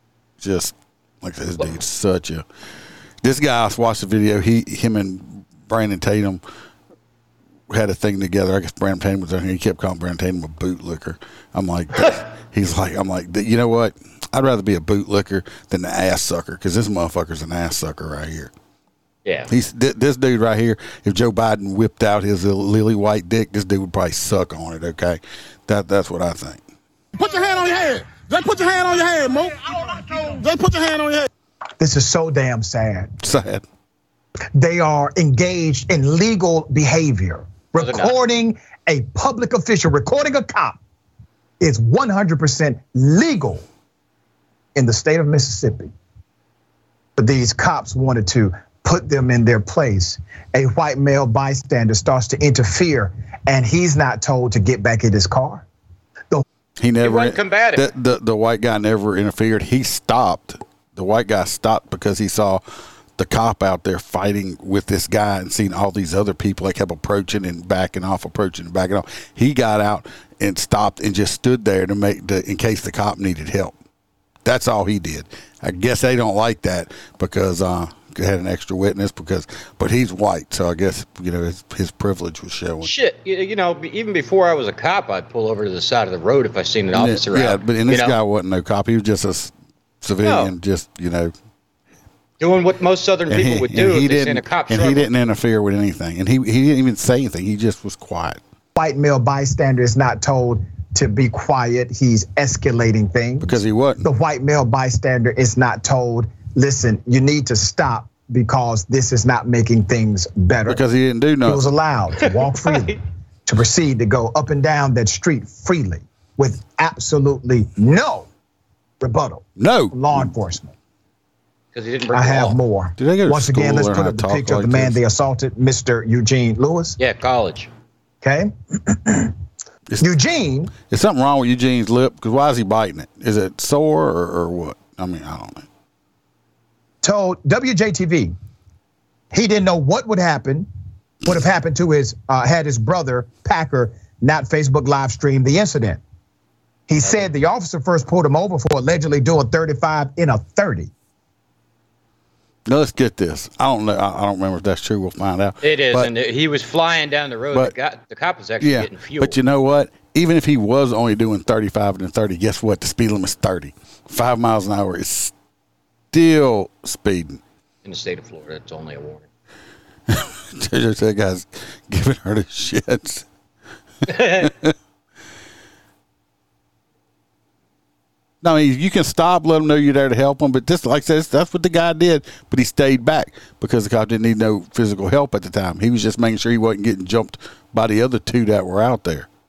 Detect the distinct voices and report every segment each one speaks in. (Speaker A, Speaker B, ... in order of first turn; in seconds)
Speaker A: 0.4-2.5, 3.2-6.4, 7.7-18.5, 19.5-26.6, 33.2-33.6, 56.8-62.6, 63.2-73.8, 74.5-82.9, 86.9-91.3, 93.3-98.4, 103.4-104.1, 110.7-111.6, 119.6-120.3, 123.0-125.0, 130.9-135.7, 152.7-156.1, 158.6-165.3, 166.1-167.4, 170.1-173.3, 174.4-174.7, 178.4-189.3
Speaker B: 27.2-31.3
Speaker C: 31.8-33.1, 34.5-40.8, 41.6-43.6, 44.8-45.9, 47.2-55.7, 98.8-110.8, 111.4-118.3, 119.0-120.7, 122.1-127.0, 128.2-129.3, 130.0-130.7, 137.0-138.3, 139.3-140.7, 141.2-146.0, 146.9-150.9
Speaker D: 37.8-38.2, 57.0-57.9, 82.8-88.2, 90.2-90.5, 92.4-95.1, 112.2-113.0, 121.8-122.6, 127.0-127.7, 147.0-147.3, 155.6-159.4, 167.8-169.3, 174.1-174.5